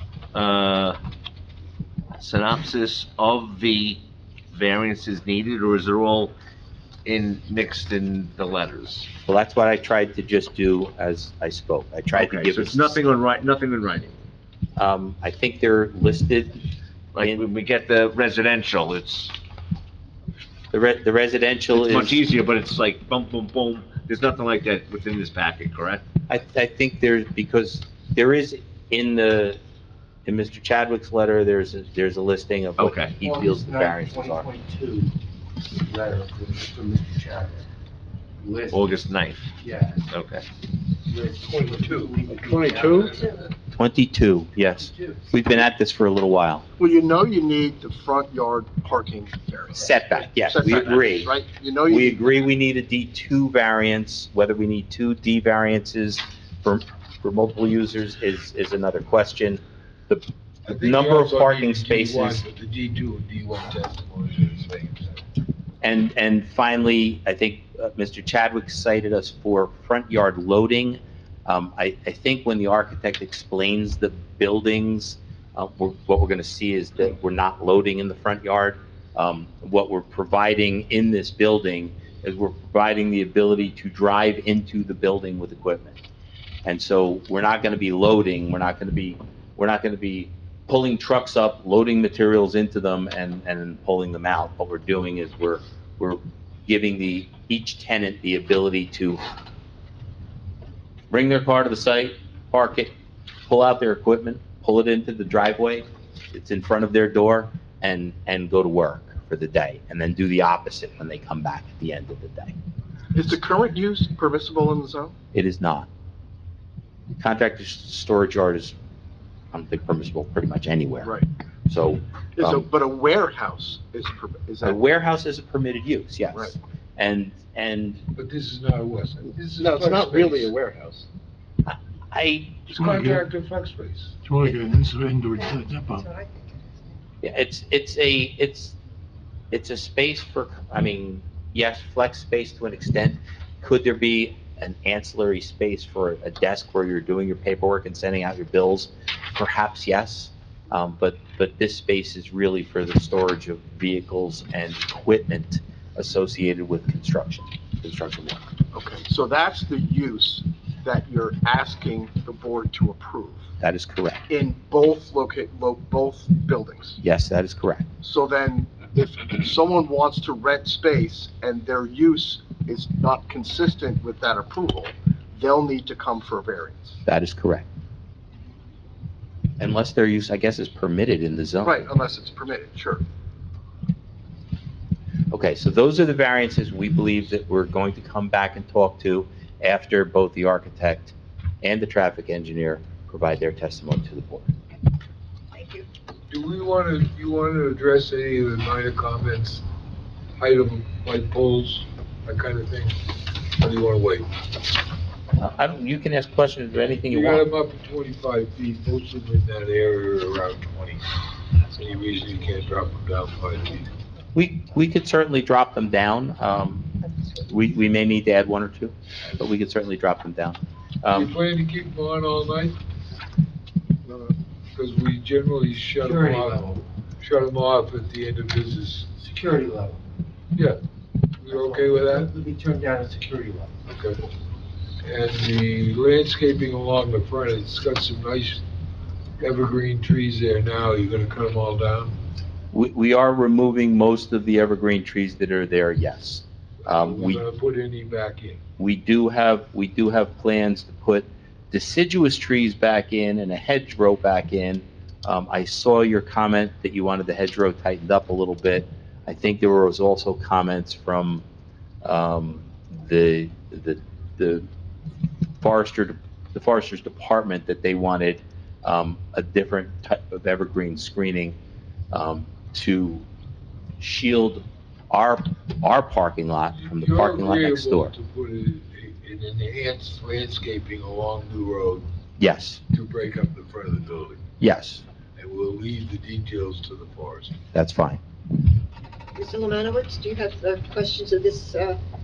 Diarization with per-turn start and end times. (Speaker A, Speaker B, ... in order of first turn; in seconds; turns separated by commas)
Speaker A: 0.3-1.0, Speaker A: 2.2-4.0, Speaker A: 4.5-6.3, Speaker A: 7.0-9.1, Speaker B: 9.2-13.0, Speaker A: 12.2-14.1, Speaker B: 14.8-16.6, Speaker A: 17.1-19.3, Speaker B: 20.7-22.2, Speaker A: 21.7-26.0, Speaker B: 26.3-29.6, Speaker B: 30.2-34.5, Speaker A: 32.8-33.2, Speaker C: 33.2-35.1, Speaker C: 35.8-37.6, Speaker C: 38.4-39.0, Speaker A: 38.7-39.5, Speaker C: 39.6-40.0, Speaker A: 40.1-40.4, Speaker C: 41.1-43.2, Speaker D: 42.5-43.0, Speaker B: 43.7-46.6, Speaker E: 46.8-52.3, Speaker B: 49.8-51.3, Speaker B: 51.9-62.4, Speaker D: 60.7-65.2, Speaker B: 65.8-86.0, Speaker B: 86.6-99.2, Speaker B: 101.1-102.9, Speaker B: 103.5-112.5, Speaker E: 113.1-115.1, Speaker B: 115.3-115.9, Speaker B: 117.2-118.8, Speaker B: 119.5-121.1, Speaker B: 121.7-122.6, Speaker E: 122.3-124.8, Speaker B: 124.6-128.0, Speaker D: 128.1-130.5, Speaker E: 129.6-131.1, Speaker B: 131.7-132.8, Speaker D: 132.7-134.2, Speaker F: 132.8-133.2, Speaker F: 134.2-136.0, Speaker G: 135.3-136.5, Speaker B: 137.2-138.8, Speaker B: 139.5-158.4, Speaker E: 158.7-163.4, Speaker B: 163.6-164.2, Speaker E: 164.3-167.0, Speaker B: 167.0-167.9, Speaker E: 168.0-176.9, Speaker B: 177.1-177.7, Speaker B: 179.6-181.8, Speaker E: 181.6-183.0, Speaker B: 185.3-194.5, Speaker G: 195.5-195.8, Speaker D: 196.3-199.6, Speaker D: 200.4-203.0, Speaker D: 203.6-204.3, Speaker B: 205.4-207.4, Speaker D: 207.1-211.0, Speaker D: 211.7-213.9, Speaker B: 214.3-221.3, Speaker D: 221.1-222.8, Speaker E: 224.1-224.3, Speaker D: 224.7-229.1, Speaker C: 226.0-226.8, Speaker C: 229.2-230.0, Speaker D: 230.5-230.8, Speaker D: 231.4-232.3, Speaker C: 231.5-233.7, Speaker D: 233.8-234.2, Speaker D: 235.0-238.6, Speaker D: 239.4-242.2, Speaker B: 242.7-247.4, Speaker D: 246.8-248.6, Speaker B: 248.8-261.4, Speaker B: 262.0-264.6, Speaker B: 265.6-271.5, Speaker B: 272.1-273.2, Speaker B: 274.0-278.1, Speaker D: 276.7-282.0, Speaker B: 282.4-282.8, Speaker D: 282.9-284.4, Speaker B: 284.6-285.0, Speaker D: 285.4-287.6, Speaker B: 287.7-288.2, Speaker G: 289.3-292.0